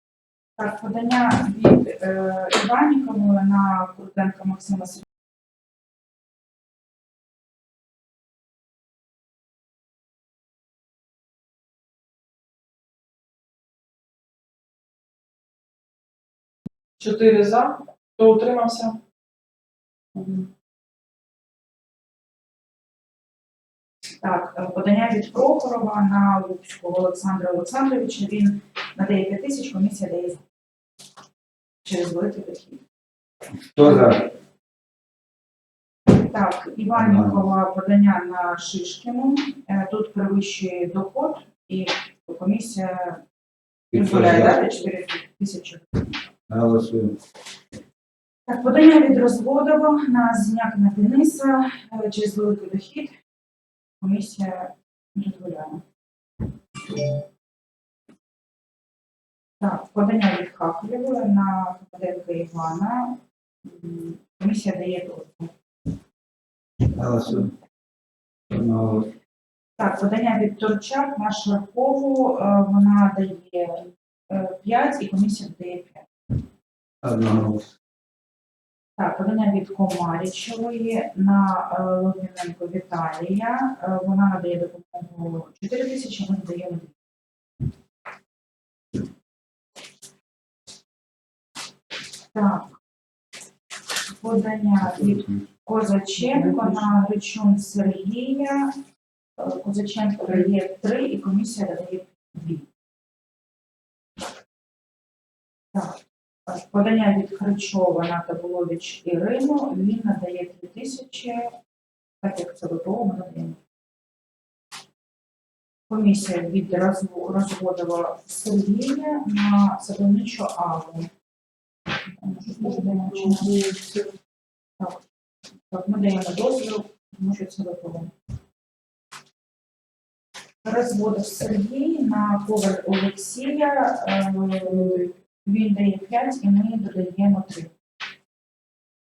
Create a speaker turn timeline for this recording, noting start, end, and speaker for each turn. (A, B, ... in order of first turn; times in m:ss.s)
0:00.6-0:05.0 A
0:17.0-0:19.0 B
0:20.2-0:20.5 B
0:24.2-0:30.4 A
0:31.8-0:32.8 A
0:33.7-0:34.2 C
0:33.8-0:34.3 A
0:36.1-0:43.2 A
0:36.9-0:37.4 C
0:43.9-0:44.6 C
0:43.9-0:46.1 A
0:46.5-0:47.2 C
0:48.5-0:53.1 A
0:54.0-0:55.8 A
0:59.6-1:05.5 A
1:06.9-1:07.5 C
1:08.5-1:09.1 C
1:09.8-1:16.1 A
1:17.0-1:17.7 C
1:19.0-1:27.0 A
1:32.3-1:32.8 A
1:34.1-1:38.7 A
1:34.8-1:35.4 C
1:36.2-1:36.9 B
1:39.4-1:42.7 A
1:45.7-1:51.6 A
1:52.2-1:53.6 A
1:55.9-2:01.1 A
2:02.2-2:03.6 A
2:02.6-2:04.1 B
2:04.8-2:05.0 A
2:05.7-2:08.1 A
2:10.6-2:17.8 A
2:14.6-2:15.1 B